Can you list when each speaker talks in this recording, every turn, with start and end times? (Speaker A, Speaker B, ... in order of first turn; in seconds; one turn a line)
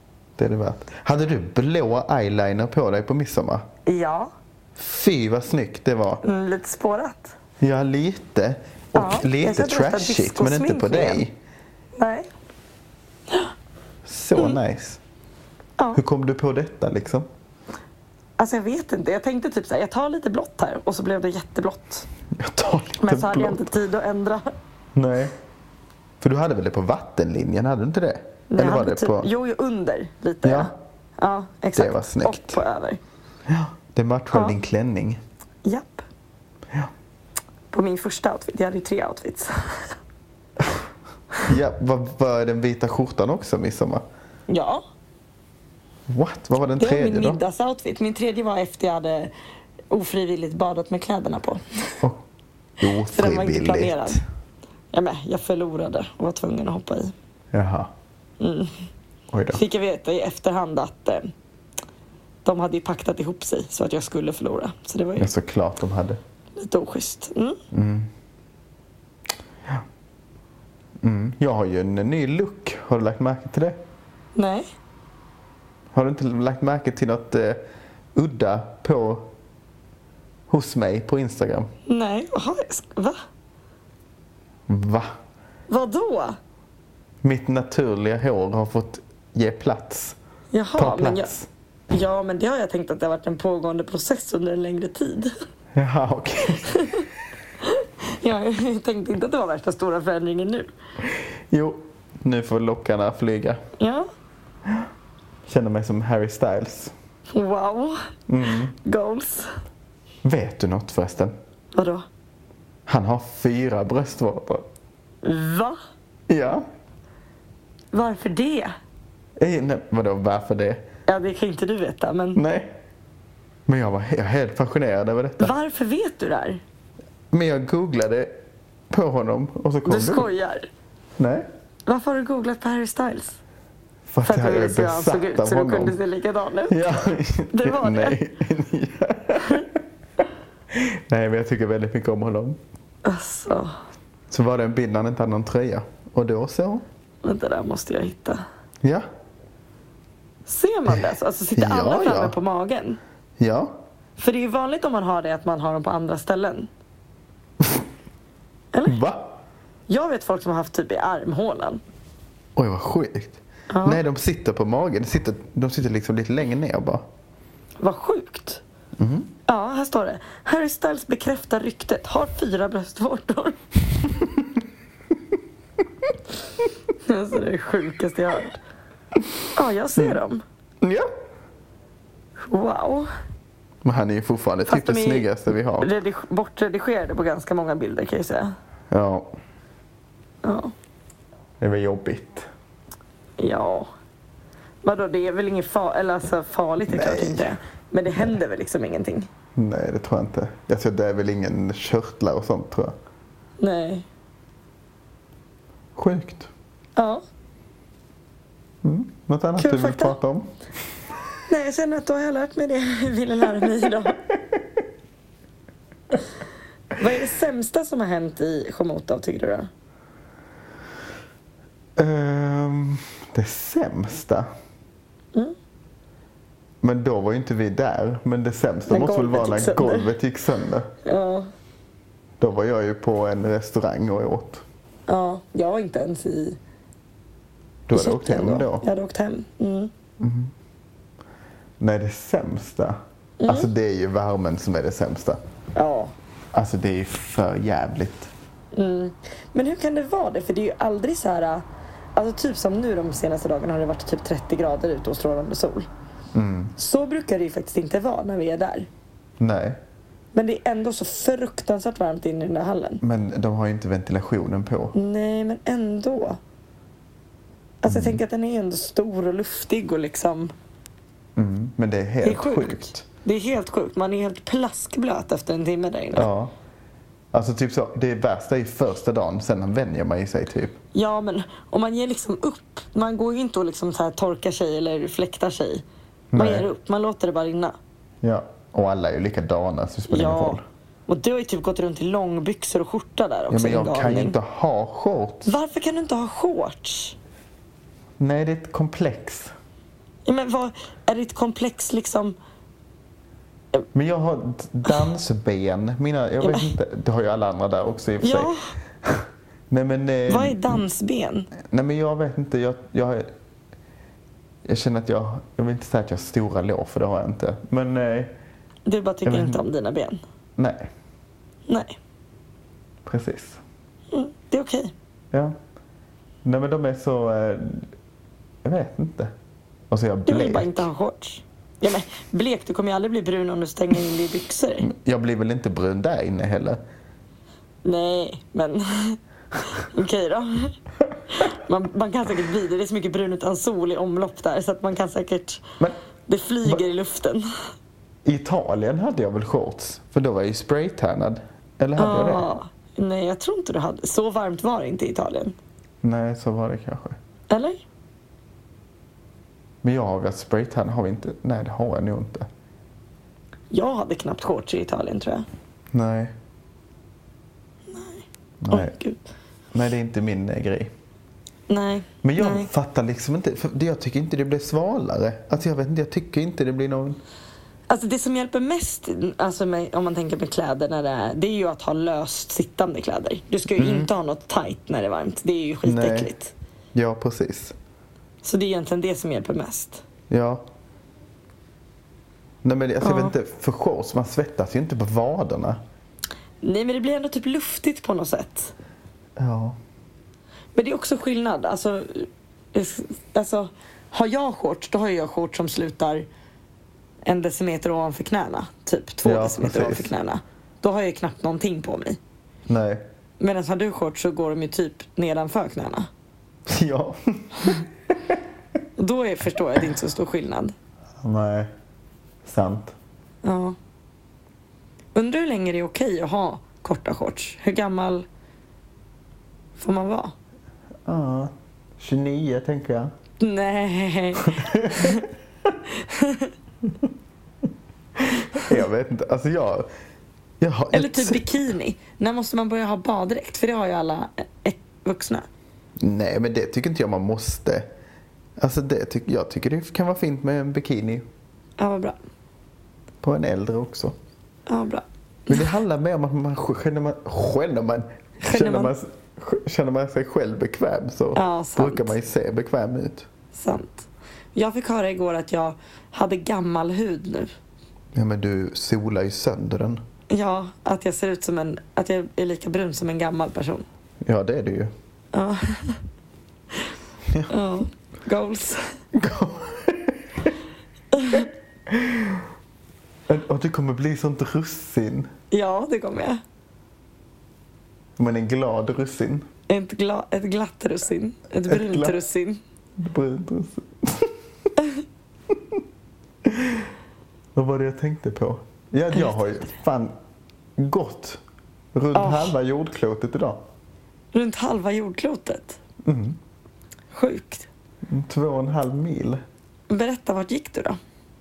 Speaker A: 0.4-3.6
Speaker B: 3.9-4.3
Speaker A: 4.8-6.2
Speaker B: 6.2-7.3
Speaker A: 7.6-11.4
Speaker B: 9.0-11.2
Speaker B: 12.0-12.3
Speaker A: 14.1-15.0
Speaker A: 15.9-17.3
Speaker B: 18.4-22.1
Speaker A: 22.4-23.7
Speaker B: 23.0-24.5
Speaker A: 24.9-25.4
Speaker A: 26.2-29.3
Speaker B: 28.5-33.0
Speaker A: 30.4-30.7
Speaker A: 31.8-32.6
Speaker A: 33.5-35.2
Speaker B: 34.3-34.6
Speaker B: 35.6-36.0
Speaker B: 37.7-39.9
Speaker A: 41.4-44.0
Speaker B: 44.5-44.8
Speaker A: 46.1-47.4
Speaker B: 46.8-49.3
Speaker B: 49.9-51.9
Speaker A: 52.8-54.2
Speaker B: 52.9-54.2
Speaker B: 54.9-57.1
Speaker A: 57.5-57.9
Speaker B: 58.4-58.7
Speaker A: 59.3-59.6
Speaker B: 59.5-61.3
Speaker B: 62.4-65.3
Speaker A: 65.2-66.2
Speaker B: 66.5-67.6
Speaker A: 67.7-68.1
Speaker A: 71.0-73.8
Speaker B: 74.3-74.7
Speaker A: 75.9-77.6
Speaker A: 78.1-79.3
Speaker A: 80.5-81.7
Speaker B: 81.9-83.2
Speaker A: 84.7-85.1
Speaker B: 85.7-86.4
Speaker A: 87.2-90.2
Speaker B: 90.5-91.3
Speaker A: 90.8-91.5
Speaker B: 91.9-95.3
Speaker A: 95.8-96.8
Speaker B: 96.7-97.1
Speaker B: 97.6-100.7
Speaker A: 101.0-103.6
Speaker B: 103.8-104.1
Speaker A: 105.5-106.9
Speaker B: 107.3-108.0
Speaker A: 108.3-108.8
Speaker B: 108.8-109.5
Speaker A: 110.2-111.3
Speaker B: 111.8-112.0
Speaker A: 112.9-114.6
Speaker B: 115.2-115.8
Speaker A: 116.3-116.6
Speaker B: 117.9-118.7
Speaker A: 119.4-120.8
Speaker B: 121.1-122.4
Speaker A: 122.3-122.7
Speaker A: 123.7-125.5
Speaker B: 125.4-126.6
Speaker A: 127.3-128.3
Speaker A: 128.9-130.3
Speaker B: 129.9-130.7
Speaker A: 131.2-131.5
Speaker B: 131.9-133.4
Speaker A: 134.1-136.0
Speaker B: 134.2-136.8
Speaker A: 136.7-139.8
Speaker B: 137.5-138.2
Speaker B: 139.4-139.7
Speaker A: 140.7-142.6
Speaker B: 143.0-143.7
Speaker A: 144.3-146.8
Speaker B: 147.2-148.4
Speaker B: 150.5-153.0
Speaker A: 151.6-152.4
Speaker A: 153.4-153.8
Speaker B: 154.2-156.7
Speaker B: 158.7-159.0
Speaker A: 158.8-159.3
Speaker B: 159.9-161.8
Speaker A: 162.6-167.1
Speaker B: 163.7-164.0
Speaker B: 167.8-168.6
Speaker A: 169.0-169.3
Speaker B: 169.5-173.6
Speaker B: 177.0-178.6
Speaker B: 179.5-180.4
Speaker A: 180.8-181.1
Speaker B: 182.4-183.1
Speaker A: 183.8-185.9
Speaker B: 184.7-185.3
Speaker B: 185.8-188.5
Speaker A: 188.9-189.3
Speaker B: 190.4-190.7
Speaker A: 191.6-192.5
Speaker B: 193.4-193.9
Speaker B: 194.8-199.3
Speaker A: 196.9-197.5
Speaker A: 199.6-202.9
Speaker B: 203.6-204.1
Speaker A: 205.9-206.5
Speaker B: 207.0-207.2
Speaker A: 208.8-210.5
Speaker B: 209.6-210.2
Speaker B: 211.5-214.2
Speaker A: 214.3-214.6
Speaker B: 216.9-219.7
Speaker A: 222.0-224.5
Speaker A: 226.8-230.9
Speaker B: 228.9-230.1
Speaker B: 231.0-231.5
Speaker A: 232.4-234.6
Speaker B: 235.1-236.6
Speaker A: 237.9-238.9
Speaker B: 237.9-239.9
Speaker A: 240.2-240.5
Speaker A: 241.8-245.4
Speaker B: 243.4-243.7
Speaker B: 245.8-246.1
Speaker A: 246.5-248.3
Speaker B: 248.7-251.6
Speaker B: 252.2-255.9
Speaker A: 256.3-256.7
Speaker B: 256.8-258.9
Speaker A: 259.4-259.8
Speaker B: 260.3-263.0
Speaker A: 263.0-264.9
Speaker B: 264.9-266.4
Speaker B: 267.8-270.5
Speaker A: 267.9-268.2
Speaker A: 271.4-273.0
Speaker B: 272.2-276.3
Speaker A: 276.1-276.5
Speaker A: 277.3-280.8
Speaker B: 280.9-285.8
Speaker A: 286.3-286.7
Speaker B: 286.4-287.8
Speaker A: 288.2-290.6
Speaker B: 290.1-294.4
Speaker A: 293.5-295.5
Speaker B: 295.5-297.1
Speaker A: 298.2-299.5
Speaker B: 300.2-302.4
Speaker A: 303.9-310.8
Speaker B: 306.4-306.7
Speaker B: 308.2-308.8
Speaker B: 310.3-311.5
Speaker A: 311.6-313.3
Speaker A: 314.6-318.3
Speaker B: 318.9-320.2
Speaker A: 319.2-319.6
Speaker A: 320.6-320.9
Speaker B: 321.7-322.0
Speaker A: 323.0-323.6
Speaker B: 324.1-324.9
Speaker A: 326.4-327.9
Speaker A: 328.6-329.3
Speaker A: 329.9-330.9
Speaker B: 330.3-334.9
Speaker A: 334.8-336.8
Speaker B: 337.9-340.7
Speaker B: 341.3-345.6
Speaker B: 346.3-347.5
Speaker A: 348.2-352.5
Speaker B: 352.0-355.6
Speaker A: 356.0-357.2
Speaker B: 357.5-357.8
Speaker A: 359.8-362.5
Speaker B: 363.7-365.5
Speaker A: 365.9-366.3
Speaker B: 367.9-369.2
Speaker A: 368.6-368.9
Speaker A: 369.7-370.9
Speaker B: 371.7-372.7
Speaker A: 372.2-377.2
Speaker B: 377.9-386.5
Speaker A: 383.8-384.1
Speaker A: 385.9-386.3
Speaker A: 386.9-387.8
Speaker B: 388.4-390.0
Speaker A: 390.3-390.6
Speaker A: 392.6-395.8
Speaker B: 393.0-393.4
Speaker B: 396.6-398.7
Speaker A: 399.4-399.8
Speaker B: 400.8-406.2
Speaker B: 407.2-412.2
Speaker A: 409.2-410.1
Speaker A: 412.7-413.0
Speaker B: 413.4-416.1
Speaker A: 416.6-418.4
Speaker B: 419.0-420.8
Speaker A: 421.2-421.7
Speaker A: 422.4-422.9
Speaker B: 423.4-423.8
Speaker B: 425.1-428.2
Speaker B: 429.8-430.4
Speaker A: 431.0-433.1
Speaker B: 433.4-435.3
Speaker A: 434.4-435.3
Speaker B: 435.9-436.5
Speaker A: 436.9-437.1
Speaker A: 438.2-439.9
Speaker B: 438.5-438.8
Speaker A: 440.6-441.5
Speaker B: 440.9-445.5
Speaker A: 446.0-447.9
Speaker A: 448.6-451.2
Speaker B: 451.8-452.1
Speaker A: 453.2-454.1
Speaker B: 454.7-455.7
Speaker A: 455.5-463.3
Speaker B: 458.4-458.9
Speaker B: 461.4-462.1
Speaker B: 463.5-467.5
Speaker A: 468.1-470.0
Speaker B: 470.3-473.9
Speaker A: 474.2-474.9
Speaker B: 475.3-476.0
Speaker B: 477.5-478.9
Speaker A: 479.1-480.6
Speaker B: 481.1-481.5
Speaker A: 481.3-482.4
Speaker A: 483.3-485.3
Speaker B: 485.5-486.4
Speaker A: 488.2-489.4
Speaker B: 489.7-492.6
Speaker A: 491.7-492.2
Speaker A: 493.0-494.4
Speaker B: 494.8-495.0
Speaker A: 495.5-495.8
Speaker A: 496.4-496.9
Speaker A: 497.6-500.1
Speaker A: 500.8-501.4
Speaker A: 501.9-503.6
Speaker B: 502.1-502.5
Speaker B: 504.3-505.8
Speaker A: 506.1-506.4
Speaker B: 507.1-507.7
Speaker A: 508.1-509.4
Speaker B: 509.9-511.0